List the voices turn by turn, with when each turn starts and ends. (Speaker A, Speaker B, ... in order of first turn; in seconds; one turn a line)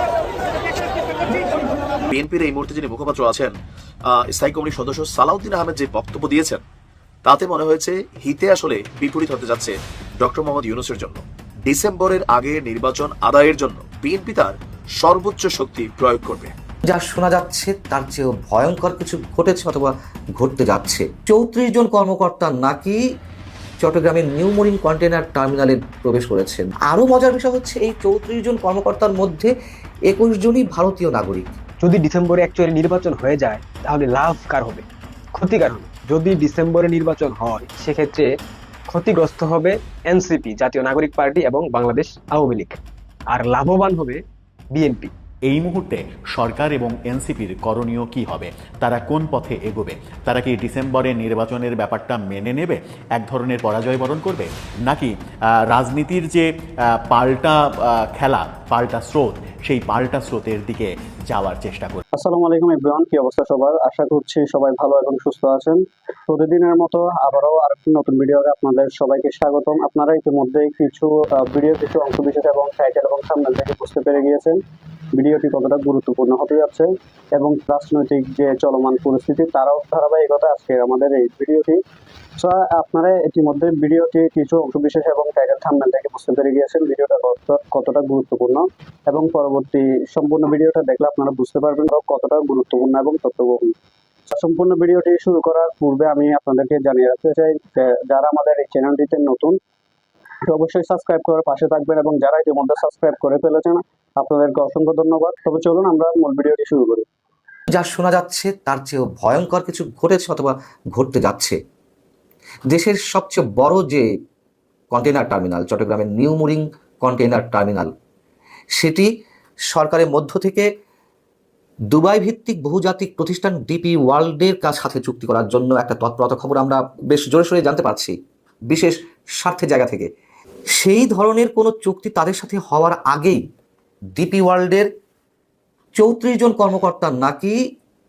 Speaker A: 2.1-3.5
Speaker A: 4.1-6.6
Speaker A: 7.2-16.5
Speaker B: 16.9-23.0
Speaker B: 23.8-29.5
Speaker B: 30.1-31.5
Speaker C: 31.8-38.3
Speaker C: 38.9-42.8
Speaker C: 43.3-44.2
Speaker C: 44.7-45.1
Speaker D: 45.5-55.1
Speaker D: 55.7-56.5
Speaker D: 57.1-57.6
Speaker D: 58.1-62.0
Speaker E: 62.1-74.6
Speaker E: 75.1-81.8
Speaker E: 82.4-93.7
Speaker E: 94.3-99.5
Speaker E: 100.5-107.0
Speaker B: 107.7-111.5
Speaker B: 112.7-114.0
Speaker B: 114.9-117.9
Speaker B: 118.8-119.1
Speaker B: 119.7-120.7
Speaker B: 121.9-128.1
Speaker B: 128.7-130.1
Speaker B: 130.8-133.4
Speaker B: 134.2-134.9
Speaker B: 136.0-137.6